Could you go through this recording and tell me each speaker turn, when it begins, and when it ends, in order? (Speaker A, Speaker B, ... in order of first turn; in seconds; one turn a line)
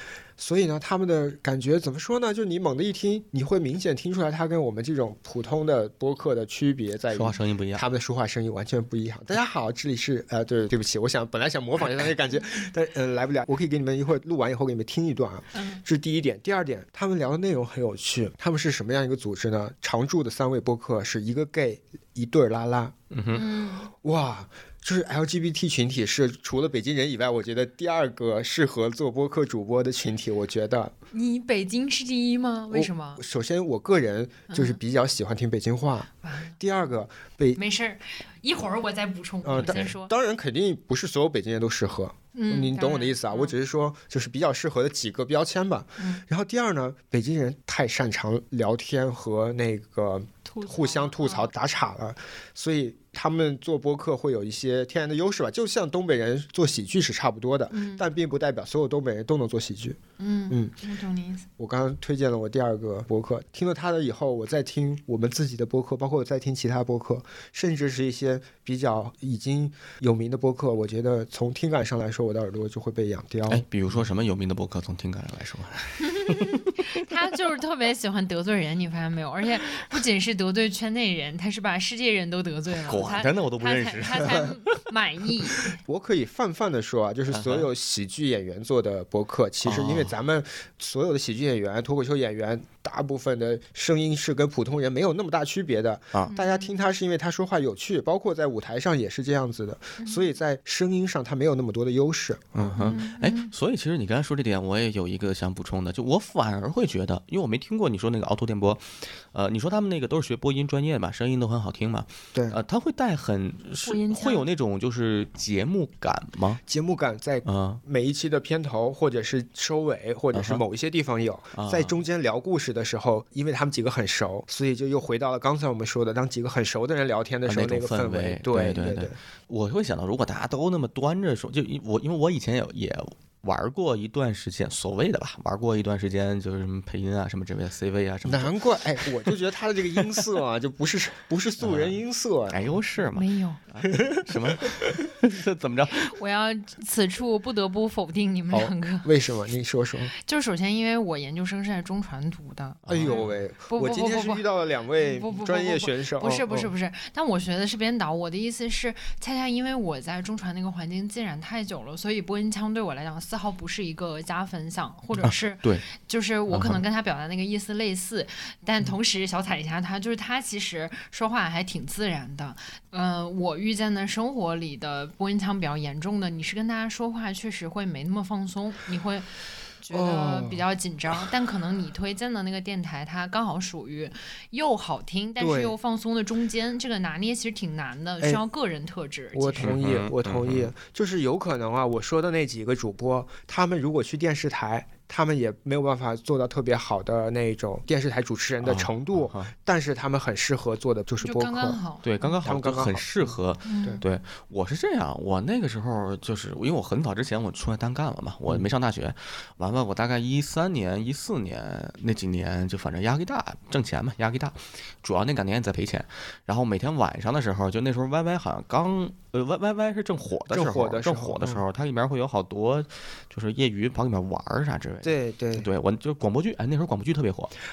Speaker A: 0.4-22.9
Speaker B: 7.1-7.8
Speaker C: 15.5-15.8
Speaker B: 23.1-23.4
Speaker C: 23.3-23.9
Speaker A: 23.9-30.9
Speaker C: 31.1-33.2
Speaker A: 32.7-37.6
Speaker C: 34.5-34.8
Speaker C: 36.2-36.5
Speaker C: 37.5-40.1
Speaker A: 39.4-60.0
Speaker B: 39.6-39.9
Speaker C: 42.3-43.6
Speaker C: 46.0-46.2
Speaker C: 50.5-51.5
Speaker C: 57.7-58.1
Speaker C: 60.2-61.5
Speaker A: 60.5-60.7
Speaker A: 61.6-73.6
Speaker B: 73.5-76.7
Speaker C: 76.0-85.7
Speaker B: 82.9-84.8
Speaker A: 85.8-103.0
Speaker B: 87.3-87.7
Speaker B: 89.6-90.1
Speaker C: 96.3-96.8
Speaker C: 100.0-100.3
Speaker B: 102.6-116.6
Speaker C: 102.8-103.5
Speaker A: 112.3-112.6
Speaker C: 113.8-114.5
Speaker A: 116.7-129.1
Speaker B: 117.4-117.8
Speaker B: 120.3-120.6
Speaker B: 121.5-122.0
Speaker B: 127.5-139.2
Speaker A: 138.2-142.6
Speaker B: 141.6-146.1
Speaker C: 143.1-143.6
Speaker A: 143.8-144.7
Speaker C: 145.9-149.1
Speaker A: 148.5-150.1
Speaker C: 150.1-179.3
Speaker B: 152.8-153.3
Speaker A: 152.9-156.7
Speaker B: 165.2-165.8
Speaker B: 166.5-166.8
Speaker C: 179.8-189.7
Speaker A: 179.9-180.6
Speaker A: 185.4-185.7
Speaker A: 189.3-201.8
Speaker B: 189.6-190.7
Speaker B: 198.6-199.5
Speaker C: 201.2-202.4
Speaker B: 202.0-227.5
Speaker A: 202.4-203.1
Speaker C: 203.6-204.0
Speaker A: 220.5-221.6
Speaker A: 225.0-225.7